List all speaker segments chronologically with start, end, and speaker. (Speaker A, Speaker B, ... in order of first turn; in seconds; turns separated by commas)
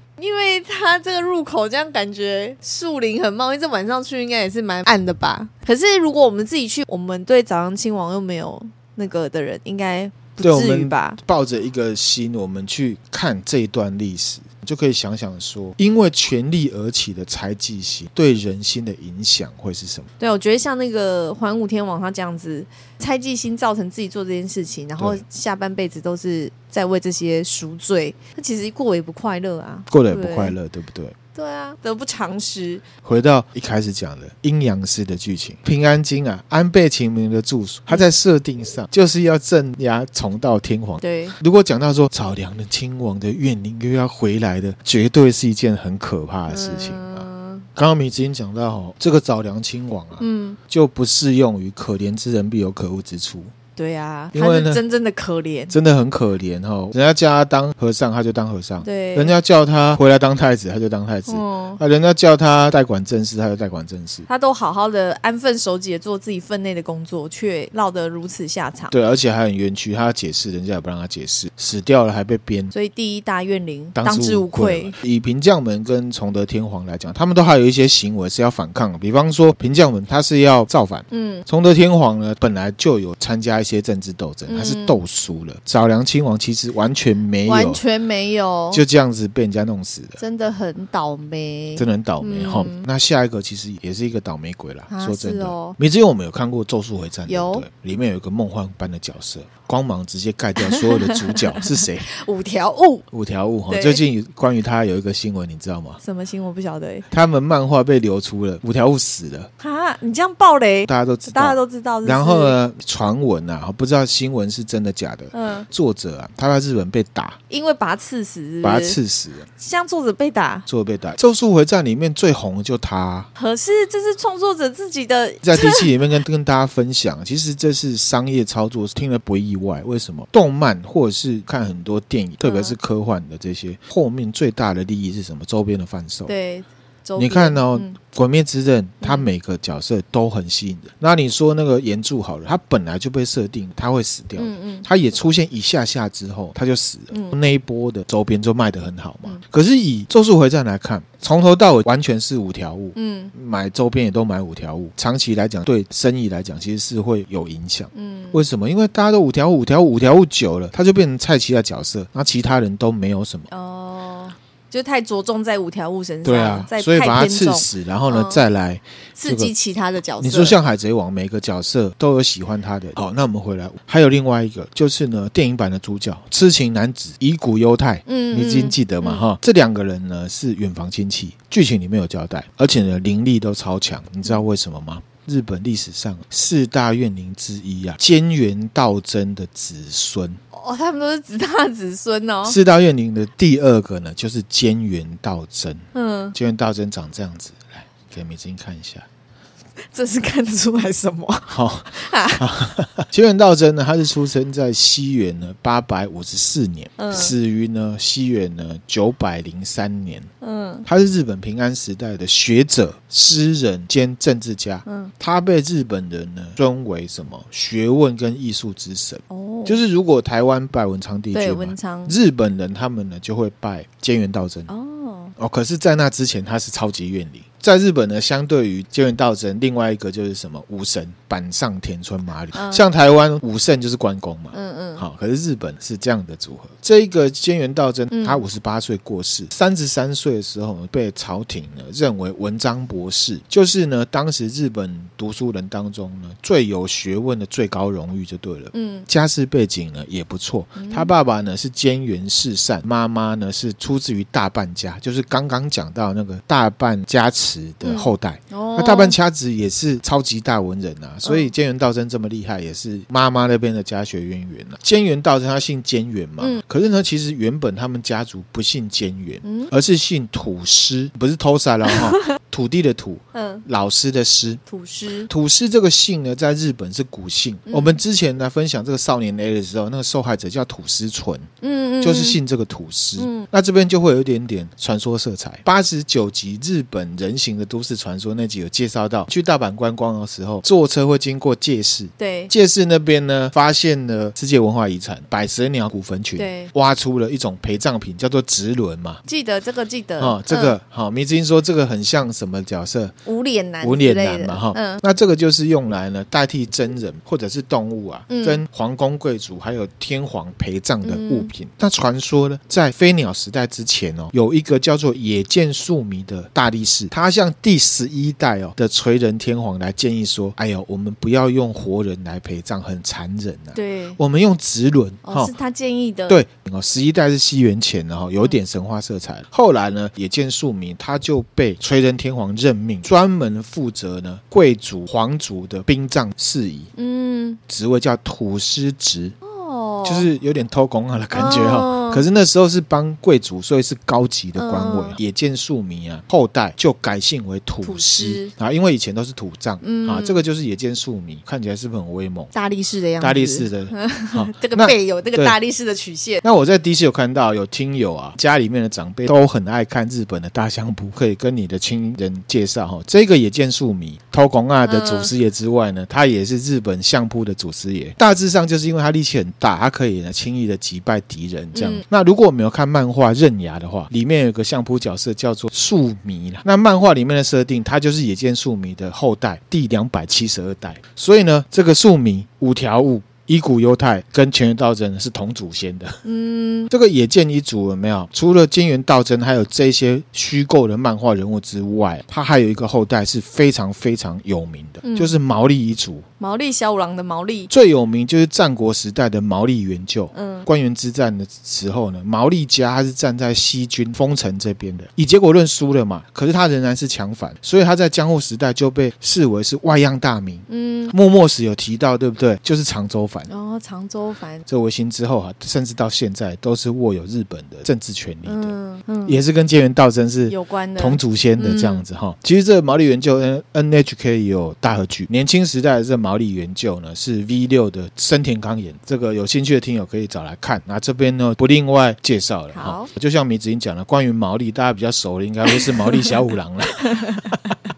Speaker A: 0.2-11.2, Speaker B: 10.4-20.1, Speaker A: 20.2-30.6, Speaker B: 29.9-31.1, Speaker A: 31.4-32.9, Speaker B: 33.0-53.5, Speaker A: 41.0-41.4, Speaker A: 46.5-47.7, Speaker A: 50.2-50.6, Speaker A: 53.8-55.7, Speaker B: 54.3-54.8, Speaker B: 55.7-64.3, Speaker A: 58.8-59.3, Speaker A: 61.3-61.8, Speaker A: 64.3-68.9, Speaker B: 68.9-72.7, Speaker A: 72.7-75.0, Speaker B: 74.0-87.8, Speaker A: 81.1-81.5, Speaker A: 84.5-85.0, Speaker A: 87.5-88.8, Speaker B: 88.7-90.2, Speaker A: 90.2-92.8, Speaker B: 91.8-102.1, Speaker A: 94.9-95.8, Speaker A: 97.3-97.7, Speaker A: 100.7-103.1, Speaker B: 103.1-106.0, Speaker A: 103.7-104.0, Speaker A: 106.0-107.1, Speaker B: 107.1-109.5, Speaker A: 109.6-112.6, Speaker B: 110.9-117.4, Speaker A: 115.3-115.7, Speaker A: 117.5-119.0, Speaker B: 118.6-119.5, Speaker A: 119.5-120.7, Speaker B: 120.7-123.3, Speaker A: 123.4-125.9, Speaker B: 125.4-136.3, Speaker A: 132.4-132.8, Speaker A: 136.3-137.9, Speaker B: 137.2-163.5, Speaker A: 139.0-139.3, Speaker A: 144.4-144.9, Speaker A: 147.1-147.4, Speaker A: 152.9-153.3, Speaker A: 157.9-158.4, Speaker A: 163.5-168.4, Speaker B: 166.2-169.5, Speaker A: 169.2-170.6, Speaker B: 170.2-190.4, Speaker A: 178.1-179.2, Speaker A: 190.5-192.6, Speaker B: 192.4-199.1, Speaker A: 195.9-196.3, Speaker A: 199.8-202.4, Speaker B: 201.5-210.3, Speaker A: 207.0-207.3, Speaker A: 210.4-210.9, Speaker B: 210.8-224.7, Speaker A: 214.9-215.1, Speaker A: 219.3-219.8, Speaker A: 221.3-222.2, Speaker A: 224.7-225.3, Speaker B: 225.4-274.6, Speaker A: 232.5-232.8, Speaker A: 234.5-235.0, Speaker A: 238.1-238.4, Speaker A: 248.7-249.1, Speaker A: 250.8-251.1, Speaker A: 257.8-259.2, Speaker A: 261.2-261.5, Speaker A: 269.4-269.7, Speaker A: 271.9-272.2, Speaker A: 273.3-273.6, Speaker A: 274.7-275.3, Speaker B: 275.3-299.2, Speaker A: 277.7-278.0, Speaker A: 281.6-282.4, Speaker A: 283.2-283.5, Speaker A: 292.2-292.5, Speaker A: 296.4-296.7, Speaker A: 299.2-300.8, Speaker B: 300.2-303.1, Speaker A: 303.2-305.0, Speaker B: 303.8-325.5, Speaker A: 308.3-308.6, Speaker A: 311.1-311.5, Speaker A: 323.8-324.2, Speaker A: 325.2-326.4, Speaker B: 326.3-336.9, Speaker A: 337.0-337.6, Speaker B: 337.7-339.4, Speaker A: 339.4-340.3, Speaker B: 340.0-352.5, Speaker A: 341.3-342.2, Speaker A: 344.6-345.2, Speaker A: 347.8-348.5, Speaker A: 349.8-350.4, Speaker A: 352.5-356.4, Speaker B: 353.2-355.6, Speaker B: 356.4-386.2, Speaker A: 364.9-365.3, Speaker A: 371.8-372.0, Speaker A: 386.2-386.9, Speaker B: 386.9-396.3, Speaker A: 395.0-395.4, Speaker A: 396.4-397.7, Speaker B: 397.7-413.5, Speaker A: 400.3-400.7, Speaker A: 410.7-411.1, Speaker A: 413.5-414.7, Speaker B: 414.7-418.8, Speaker A: 418.5-419.4, Speaker B: 419.3-437.6, Speaker A: 420.5-422.0, Speaker A: 432.7-433.1, Speaker A: 435.7-436.4, Speaker A: 437.0-437.8